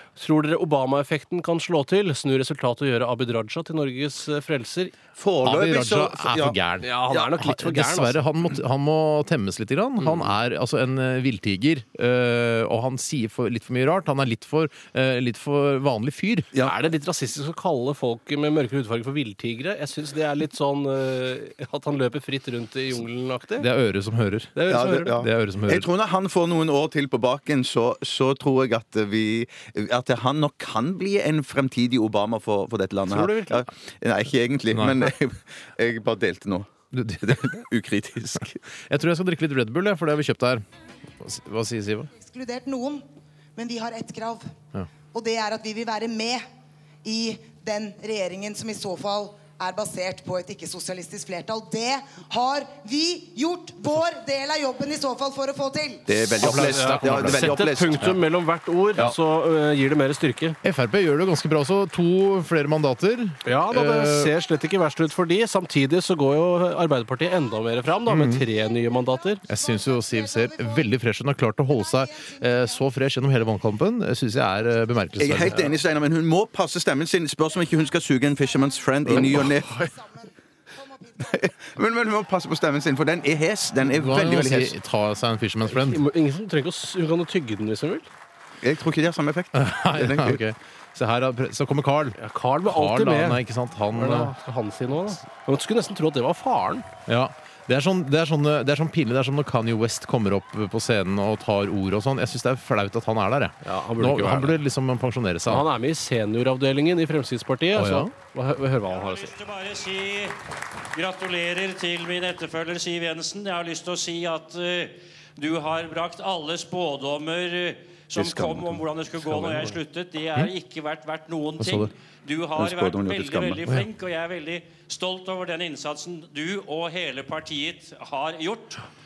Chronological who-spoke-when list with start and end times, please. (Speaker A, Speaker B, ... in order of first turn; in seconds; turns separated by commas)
Speaker A: 0.2-5.0, Speaker B: 5.2-6.6, Speaker C: 5.4-16.5, Speaker A: 6.8-8.2, Speaker A: 16.6-23.7, Speaker C: 23.6-25.9, Speaker A: 24.6-25.2, Speaker B: 24.7-36.7, Speaker A: 33.1-33.6, Speaker C: 34.7-35.1, Speaker C: 36.9-37.6, Speaker B: 37.2-38.6, Speaker C: 38.9-40.6, Speaker C: 41.2-42.1, Speaker D: 42.2-43.0, Speaker D: 43.6-44.5, Speaker D: 45.1-46.5, Speaker D: 47.0-56.1, Speaker B: 56.1-58.1, Speaker C: 56.3-58.2, Speaker A: 56.4-60.6, Speaker C: 60.6-64.3, Speaker A: 63.5-69.4, Speaker C: 68.1-68.5, Speaker D: 68.5-71.0, Speaker C: 69.5-75.6, Speaker D: 71.7-72.9, Speaker B: 75.2-79.8, Speaker D: 78.4-78.9, Speaker C: 79.1-79.6, Speaker D: 79.8-81.3, Speaker B: 81.3-84.8, Speaker C: 83.8-86.0, Speaker A: 85.7-88.1, Speaker B: 88.6-90.4, Speaker C: 89.5-94.3, Speaker A: 92.2-93.4, Speaker A: 93.9-96.9, Speaker C: 97.1-105.7, Speaker A: 103.6-104.6, Speaker A: 105.5-109.3, Speaker C: 107.7-108.1, Speaker E: 108.8-110.4, Speaker E: 110.9-128.8, Speaker B: 118.1-118.9, Speaker C: 119.3-119.7, Speaker C: 121.6-121.9, Speaker B: 122.6-123.7